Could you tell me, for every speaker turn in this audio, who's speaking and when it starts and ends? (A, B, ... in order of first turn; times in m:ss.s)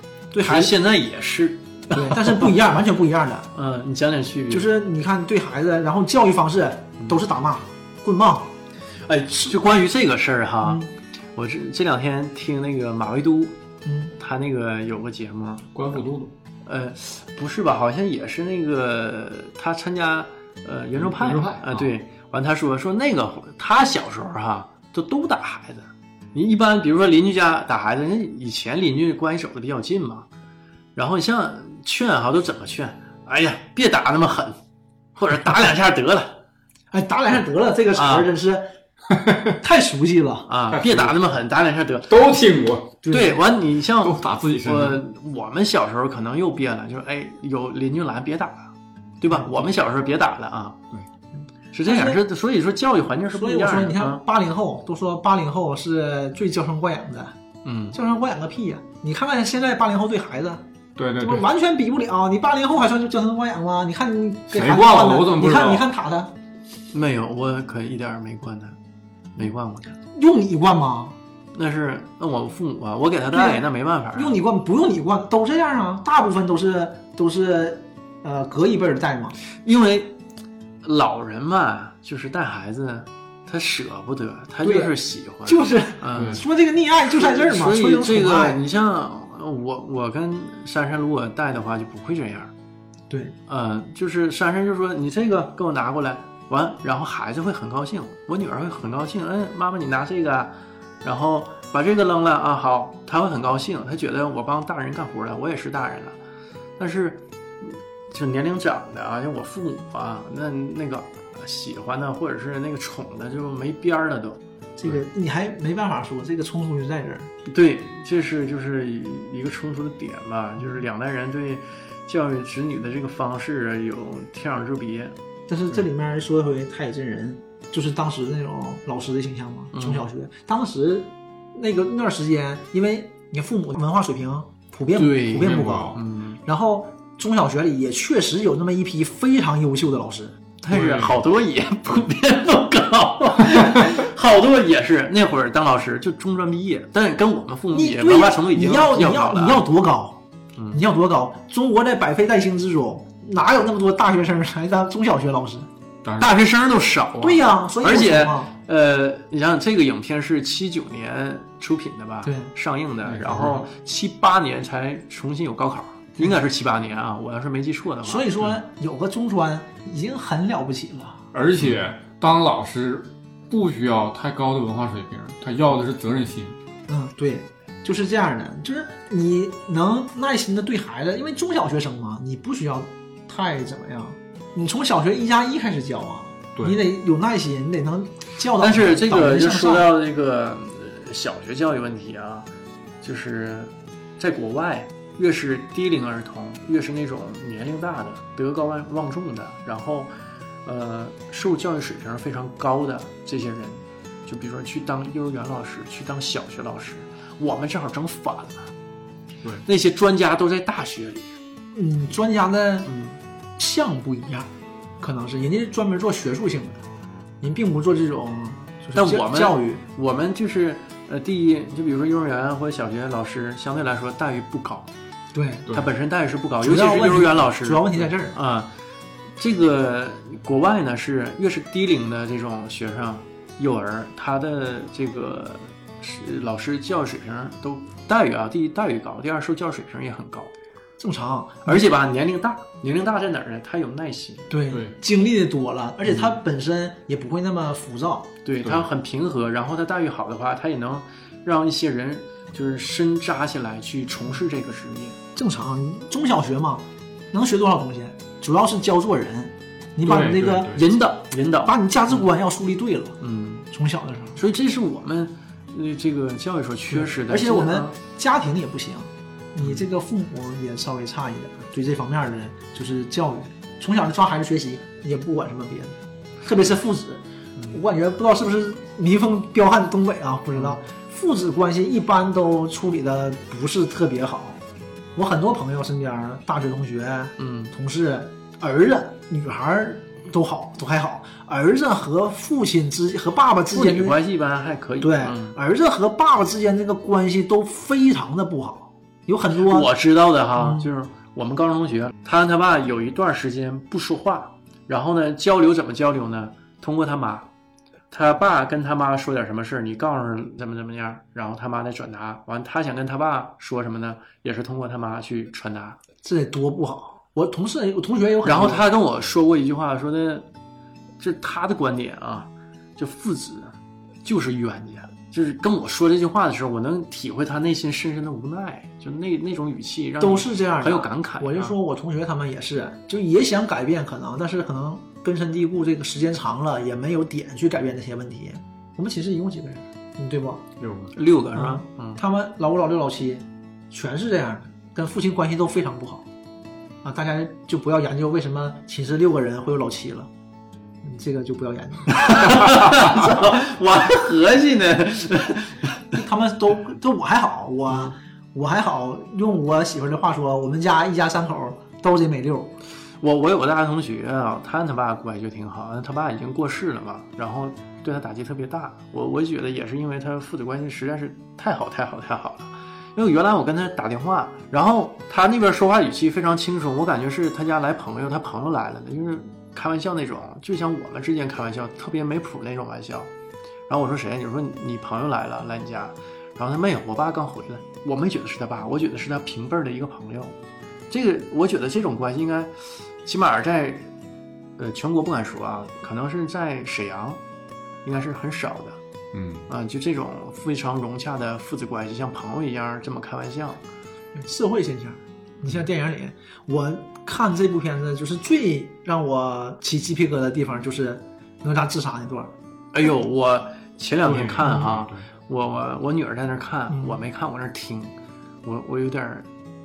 0:00.3-0:00.7 A
0:00.4-0:02.5 B
0:01.9-0:03.5 A
0:03.5-0:04.7 B
0:04.5-0:08.5 A
0:09.0-0:10.8 B
0:10.6-0:10.9 A
0:11.3-0:13.6 B
0:13.8-0:14.1 A
0:14.1-0:16.0 B
0:15.7-0:16.3 C
0:16.6-0:30.3 B
0:21.0-0:21.9 C
0:31.0-0:34.6 B
0:35.2-0:36.4 B
0:36.9-0:38.7 A
0:37.9-0:38.3 B
0:39.1-0:39.5 C
0:39.6-0:40.5 A
0:40.5-0:42.2 B
0:40.7-0:41.2 C
0:42.1-0:43.0 C
0:43.0-0:43.4 A
0:43.1-0:50.8 B
0:44.0-0:45.0 C
0:51.7-0:54.2 B
0:51.8-0:52.2 A
0:53.3-0:57.4 A
0:57.6-0:58.0 B
0:57.9-1:00.6 A
1:01.0-1:01.4 C
1:01.2-1:06.3 A
1:04.5-1:05.9 C
1:06.9-1:08.8 B
1:09.4-1:10.0 B
1:10.1-1:11.2 A
1:11.5-1:14.4 B
1:13.3-1:19.4 A
1:19.4-1:20.2 B
1:20.8-1:26.4 B
1:24.6-1:28.6 A
1:26.1-1:26.4 C
1:27.1-1:32.5 B
1:33.1-1:33.3 A
1:33.5-1:46.2 B
1:46.8-1:54.4 B
1:54.8-1:57.3 A
1:57.4-2:05.2 B
2:05.5-2:20.4 A
2:09.7-2:10.1 B
2:15.0-2:16.4 B
2:15.4-2:16.0 C
2:20.6-2:29.6 B
2:20.7-2:21.2 C
2:27.7-2:35.7 A
2:36.0-2:36.4 C
2:36.2-2:48.3 B
2:37.2-2:38.5 A
2:42.2-2:42.5 A
2:43.0-2:43.7 C
2:48.0-2:51.2 A
2:51.3-2:56.6 C
2:56.9-3:09.9 A
3:08.6-3:12.5 B
3:13.0-3:20.1 B
3:20.6-3:28.7 B
3:29.6-3:31.3 B
3:31.7-3:32.9 A
3:32.8-3:33.2 B
3:33.6-3:36.8 A
3:37.4-3:39.8 A
3:38.9-3:44.9 B
3:45.3-3:45.7 A
3:45.7-3:48.7 B
3:46.6-3:48.4 A
3:49.4-4:00.5 B
4:01.0-4:01.9 A
4:01.6-4:04.5 B
4:04.5-4:08.3 A
4:04.7-4:04.9 C
4:08.4-4:15.2 B
4:15.4-4:20.7 A
4:20.0-4:20.9 C
4:20.7-4:22.2 B
4:21.6-4:23.2 A
4:23.2-4:23.7 B
4:23.7-4:24.4 A
4:24.4-4:27.9 B
4:26.9-4:44.6 A
4:45.1-4:54.2 A
4:47.4-4:47.7 B
4:53.7-4:55.6 B
4:55.0-4:59.9 A
4:59.6-5:07.5 B
5:00.5-5:00.9 A
5:08.1-5:16.0 B
5:16.2-5:18.8 A
5:18.4-5:20.5 B
5:21.2-5:31.7 B
5:30.2-5:40.6 A
5:40.8-5:41.1 C
5:41.1-5:42.2 B
5:41.5-5:46.2 A
5:47.0-5:50.3 A
5:51.0-5:53.5 A
5:52.1-5:56.0 B
5:56.1-6:02.8 A
6:03.2-6:23.3 B
6:23.9-6:30.6 B
6:31.1-6:34.1 B
6:34.8-6:37.4 B
6:38.0-6:39.0 B
6:39.3-6:39.7 C
6:39.7-6:43.8 B
6:44.3-6:52.5 A
6:52.9-6:59.5 B
6:54.2-6:55.2 C
6:56.9-6:57.2 A